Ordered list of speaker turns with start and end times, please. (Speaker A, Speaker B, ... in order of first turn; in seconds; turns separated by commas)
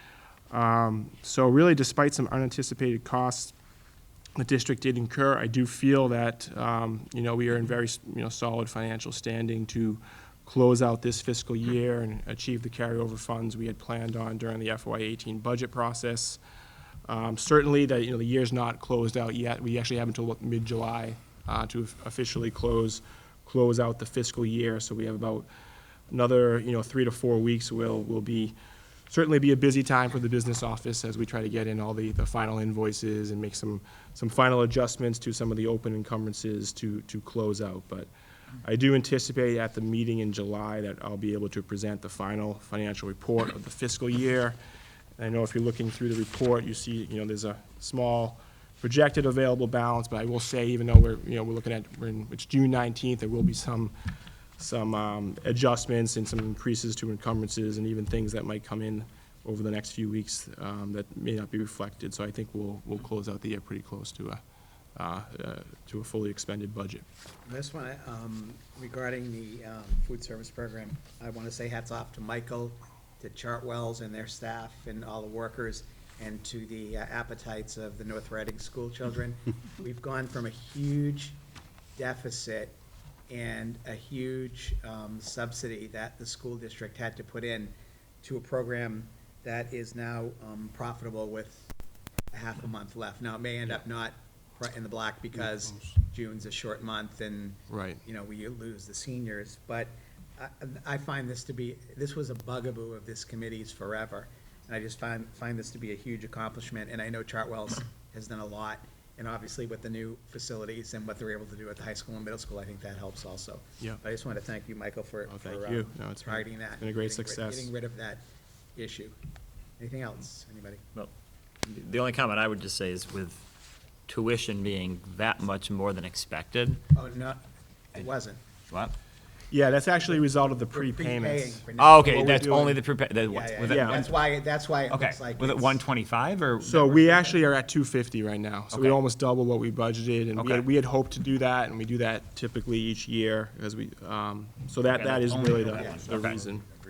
Speaker A: 0.5-3.5, Speaker A: 4.4-16.4, Speaker A: 17.1-25.5, Speaker A: 26.1-28.6, Speaker A: 29.1-38.1, Speaker A: 38.6-44.6, Speaker A: 45.2-53.9, Speaker A: 54.6-64.4, Speaker A: 65.0-67.0, Speaker B: 67.4-81.4, Speaker B: 82.0-82.8, Speaker B: 83.3-91.7, Speaker B: 92.3-119.1, Speaker A: 97.7-98.0, Speaker A: 115.2-117.7, Speaker B: 119.8-120.8, Speaker C: 121.7-123.4, Speaker C: 124.1-126.8, Speaker B: 126.9-127.4, Speaker B: 127.9-128.4, Speaker A: 129.5-132.8, Speaker B: 130.7-132.3, Speaker C: 131.8-134.2, Speaker B: 133.3-135.9, Speaker A: 133.7-134.0, Speaker C: 134.9-137.4, Speaker A: 136.6-146.7, Speaker C: 138.7-139.0, Speaker C: 140.4-140.7, Speaker C: 144.8-146.4, Speaker B: 145.8-146.1